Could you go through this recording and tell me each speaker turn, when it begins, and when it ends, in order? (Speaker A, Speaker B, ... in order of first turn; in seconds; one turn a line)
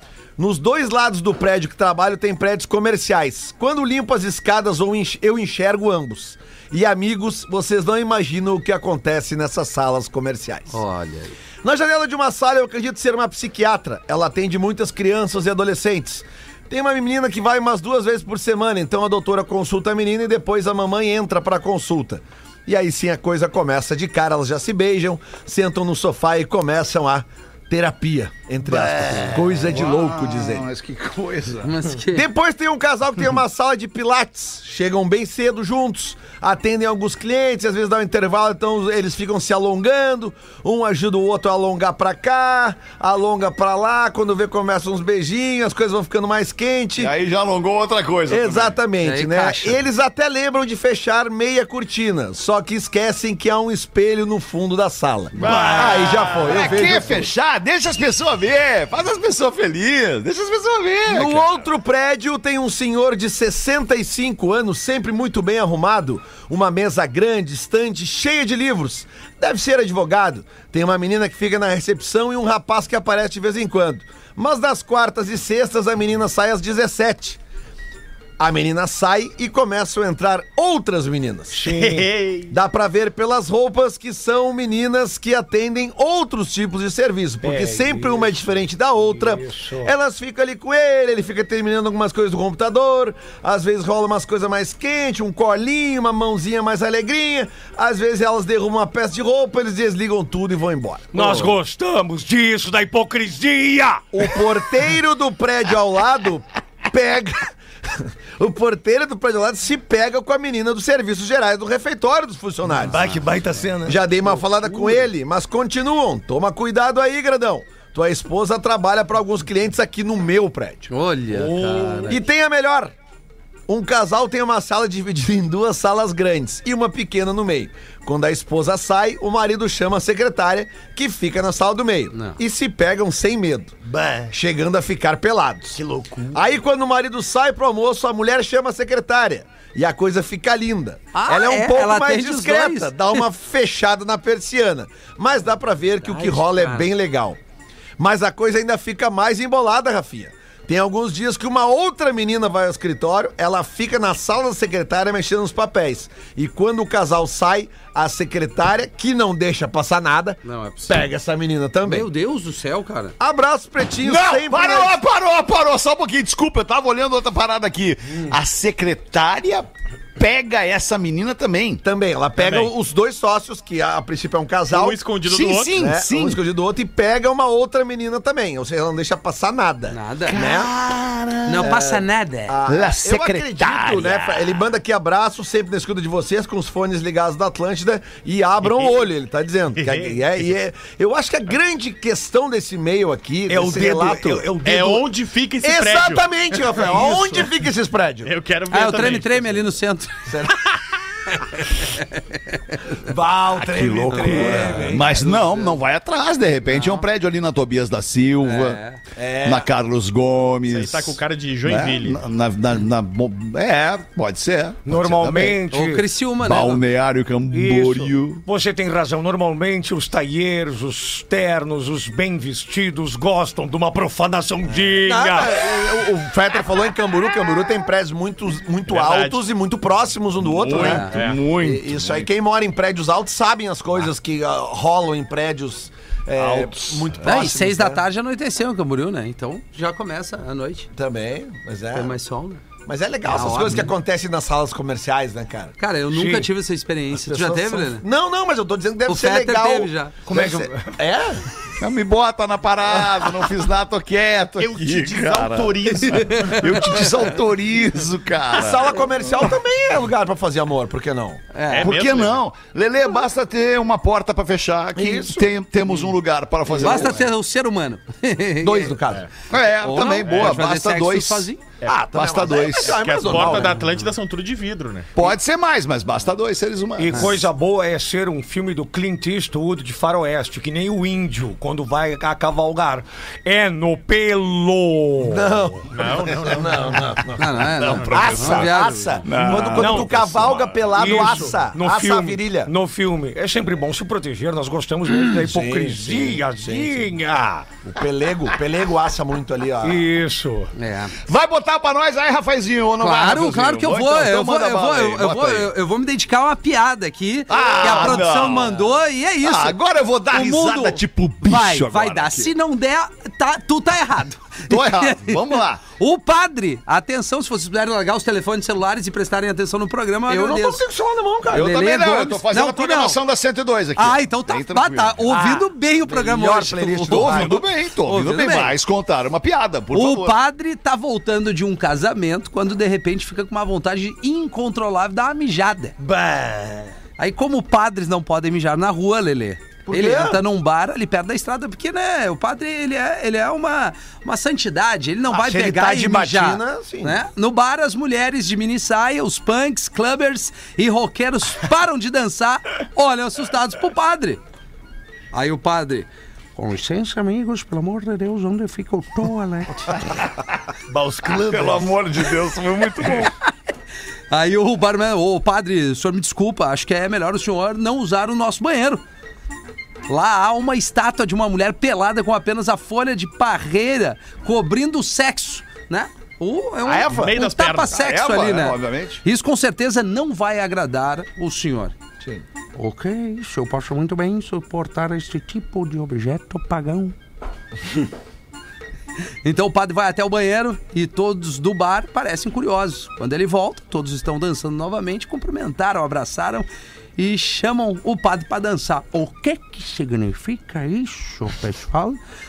Speaker A: 0.4-10.8
Speaker B: 10.7-11.3
Speaker A: 11.6-30.6
Speaker C: 28.6-31.7
Speaker B: 31.6-32.3
Speaker A: 32.1-47.1
Speaker C: 47.0-48.8
Speaker A: 48.3-57.3
Speaker B: 49.0-49.8
Speaker C: 55.4-61.6
Speaker D: 55.4-56.5
Speaker A: 61.1-77.4
Speaker A: 78.4-81.6
Speaker D: 81.5-82.1
Speaker E: 81.6-82.5
Speaker A: 82.5-101.5
Speaker D: 87.4-89.9
Speaker D: 101.1-104.5
Speaker A: 104.1-113.1
Speaker D: 112.7-115.0
Speaker A: 113.8-120.9
Speaker B: 120.9-122.2
Speaker D: 121.3-122.2
Speaker A: 122.1-122.9
Speaker A: 123.7-133.8
Speaker B: 132.1-132.4
Speaker D: 133.8-134.3
Speaker A: 134.3-135.8
Speaker D: 135.7-136.5
Speaker A: 136.3-147.4
Speaker B: 141.1-143.2
Speaker B: 146.1-146.8
Speaker D: 146.2-146.7
Speaker A: 148.0-162.1
Speaker B: 160.4-161.1
Speaker B: 161.8-163.1
Speaker A: 163.2-164.9
Speaker C: 164.0-171.8
Speaker A: 171.8-175.0
Speaker E: 172.4-172.7
Speaker E: 174.7-175.8
Speaker C: 175.2-176.4
Speaker A: 175.7-180.7
Speaker B: 179.9-180.4
Speaker C: 180.3-181.8
Speaker B: 181.4-182.6
Speaker A: 181.6-194.5
Speaker C: 182.7-184.7
Speaker E: 188.6-189.1
Speaker E: 189.7-190.2
Speaker D: 193.5-195.0
Speaker E: 194.6-197.4
Speaker A: 195.6-198.3
Speaker E: 198.2-199.7
Speaker B: 198.7-200.4
Speaker A: 200.3-200.6
Speaker B: 201.7-202.6
Speaker A: 203.1-205.6
Speaker D: 203.1-205.2
Speaker C: 203.6-208.8
Speaker B: 204.1-205.0
Speaker B: 206.7-207.0
Speaker B: 208.4-209.0
Speaker A: 209.2-209.7
Speaker C: 209.4-215.6
Speaker E: 210.7-212.2
Speaker D: 214.8-216.1
Speaker B: 215.7-216.8
Speaker C: 216.4-218.4
Speaker D: 217.5-225.6
Speaker A: 224.9-238.0
Speaker E: 228.9-229.4
Speaker C: 230.4-232.3
Speaker E: 230.6-231.4
Speaker B: 230.7-231.1
Speaker C: 236.3-237.4
Speaker B: 237.2-240.9
Speaker A: 240.9-242.2
Speaker B: 241.9-242.6
Speaker A: 242.8-245.7
Speaker B: 243.2-243.9
Speaker B: 245.8-248.0
Speaker D: 246.1-246.5
Speaker A: 247.1-251.4
Speaker B: 249.1-250.1
Speaker D: 250.3-251.0
Speaker C: 251.8-258.9
Speaker E: 254.6-256.9
Speaker B: 256.0-257.2
Speaker A: 258.5-261.4
Speaker B: 261.5-261.9
Speaker E: 261.7-262.4
Speaker C: 261.8-267.2
Speaker A: 264.9-265.5
Speaker A: 266.7-267.2
Speaker B: 266.8-268.9
Speaker A: 268.6-269.3
Speaker C: 269.5-273.7
Speaker B: 269.8-271.6
Speaker E: 270.2-270.6
Speaker A: 271.8-273.8
Speaker E: 272.7-275.2
Speaker C: 275.1-277.4
Speaker D: 277.0-285.8
Speaker A: 285.2-292.7
Speaker E: 285.9-287.0
Speaker B: 287.4-289.2
Speaker E: 287.8-288.4
Speaker C: 287.9-291.2
Speaker D: 289.6-297.7
Speaker A: 295.3-297.1
Speaker A: 297.8-300.1
Speaker D: 299.8-300.7
Speaker B: 300.8-301.2
Speaker C: 301.2-305.7
Speaker B: 303.0-309.8
Speaker C: 307.5-308.8
Speaker A: 307.8-308.2
Speaker C: 309.4-312.5
Speaker B: 310.3-320.8
Speaker C: 314.6-315.8
Speaker A: 320.3-321.7
Speaker C: 321.5-325.3
Speaker B: 321.5-323.2
Speaker B: 324.0-328.8
Speaker A: 325.3-327.6
Speaker C: 327.1-330.4
Speaker B: 329.9-336.0
Speaker D: 336.0-336.9
Speaker B: 337.2-354.4
Speaker A: 339.9-340.4
Speaker A: 345.3-347.2
Speaker B: 355.3-360.0
Speaker D: 360.9-361.9
Speaker C: 361.2-363.3
Speaker B: 364.3-369.0
Speaker B: 370.1-381.9
Speaker E: 376.9-377.9
Speaker C: 377.9-379.2
Speaker B: 382.8-387.1
Speaker B: 389.4-402.2